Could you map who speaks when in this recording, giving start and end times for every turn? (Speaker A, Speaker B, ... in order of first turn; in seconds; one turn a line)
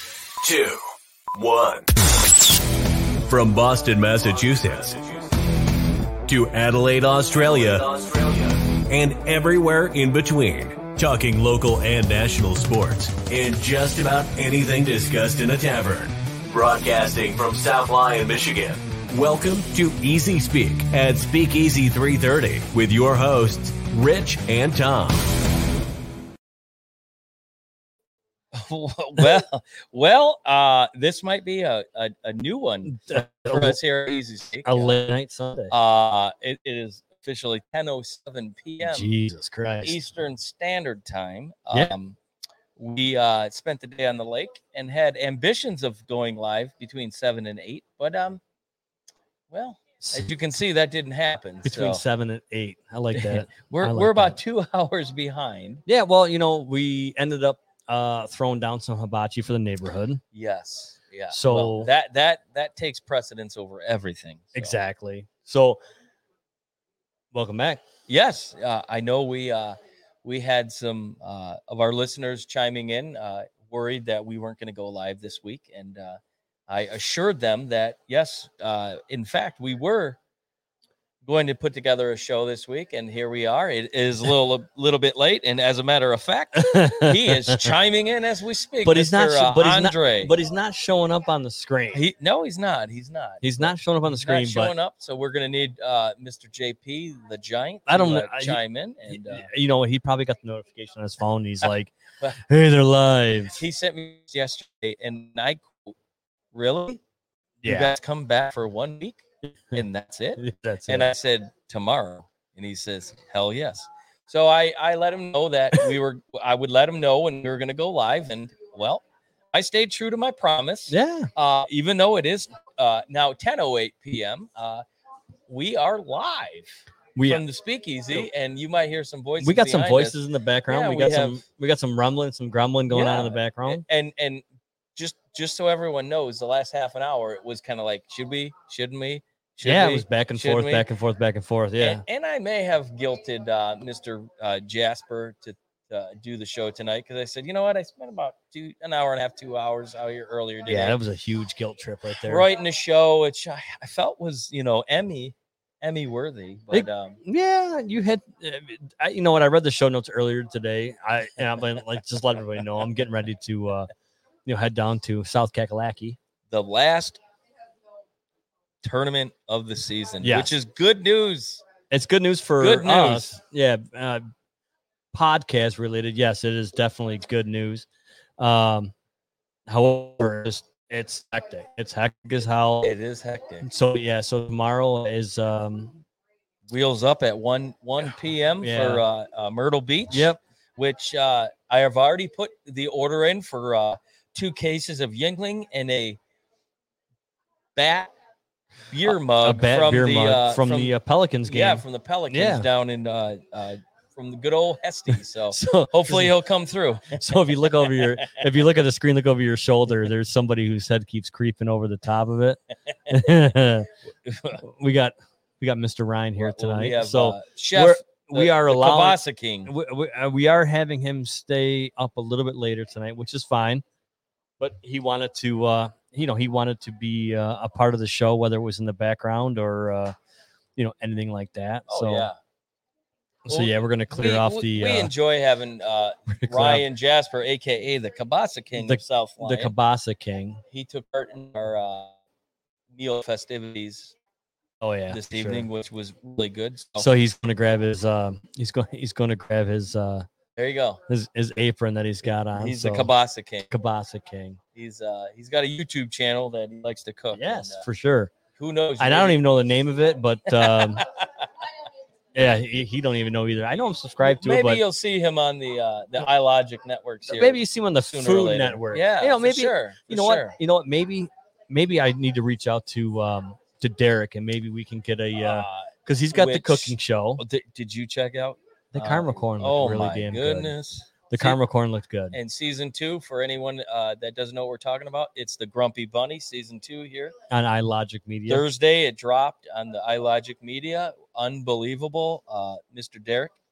Speaker A: 0.4-1.9
Speaker A: 3.2-5.1
Speaker A: 6.2-25.3
Speaker B: 28.5-35.0
Speaker C: 32.9-33.8
Speaker C: 34.6-35.7
Speaker B: 35.7-39.1
Speaker C: 38.8-40.0
Speaker B: 39.8-42.2
Speaker B: 42.8-48.4
Speaker B: 49.5-52.0
Speaker C: 50.0-50.3
Speaker C: 51.6-54.4
Speaker B: 53.1-55.8
Speaker C: 55.9-60.2
Speaker B: 60.3-64.8
Speaker C: 61.3-61.9
Speaker C: 64.5-65.8
Speaker C: 67.3-67.8
Speaker B: 68.1-80.2
Speaker B: 81.2-90.3
Speaker C: 86.6-87.7
Speaker C: 88.8-92.0
Speaker B: 91.9-99.5
Speaker C: 93.4-94.7
Speaker C: 97.9-103.6
Speaker B: 103.5-105.9
Speaker B: 106.5-107.0
Speaker C: 107.6-107.9
Speaker B: 107.6-109.2
Speaker B: 109.7-124.8
Speaker C: 110.4-111.1
Speaker C: 120.9-121.3
Speaker B: 125.5-131.4
Speaker C: 127.2-127.4
Speaker C: 129.4-133.8
Speaker B: 132.9-134.4
Speaker B: 134.9-140.9
Speaker C: 139.6-142.0
Speaker B: 141.8-151.0
Speaker C: 150.7-152.5
Speaker B: 152.2-157.2
Speaker C: 156.7-163.9
Speaker C: 164.4-166.2
Speaker B: 166.5-167.2
Speaker B: 168.8-171.6
Speaker C: 170.2-170.5
Speaker C: 171.9-174.2
Speaker B: 172.6-173.3
Speaker C: 175.1-177.8
Speaker C: 178.4-178.9
Speaker C: 179.7-182.9
Speaker B: 182.8-183.7
Speaker C: 183.6-186.0
Speaker B: 186.7-196.2
Speaker C: 188.6-189.0
Speaker C: 190.1-190.4
Speaker B: 197.7-198.1
Speaker B: 198.9-200.9
Speaker C: 199.1-202.7
Speaker B: 201.4-208.4
Speaker C: 205.5-206.3
Speaker C: 207.1-213.9
Speaker B: 214.2-214.6
Speaker C: 214.6-223.8
Speaker B: 216.4-219.7
Speaker C: 224.6-230.1
Speaker C: 230.8-232.3
Speaker B: 231.9-232.4
Speaker C: 233.4-235.1
Speaker B: 233.5-239.7
Speaker C: 236.3-236.8
Speaker C: 238.7-240.6
Speaker B: 240.7-242.1
Speaker B: 242.9-244.1
Speaker C: 244.8-245.7
Speaker B: 245.1-247.1
Speaker C: 247.0-250.2
Speaker B: 250.6-251.0
Speaker C: 251.1-253.1
Speaker B: 252.5-253.7
Speaker C: 253.7-254.6
Speaker B: 254.7-257.8
Speaker C: 257.3-258.3
Speaker B: 258.6-259.4
Speaker C: 259.0-261.1
Speaker B: 260.5-261.7
Speaker C: 262.3-264.8
Speaker B: 264.2-270.6
Speaker C: 267.2-277.4
Speaker B: 275.4-281.6
Speaker C: 278.9-280.8
Speaker C: 281.3-282.4
Speaker B: 282.3-287.3
Speaker C: 287.5-288.6
Speaker B: 288.5-293.5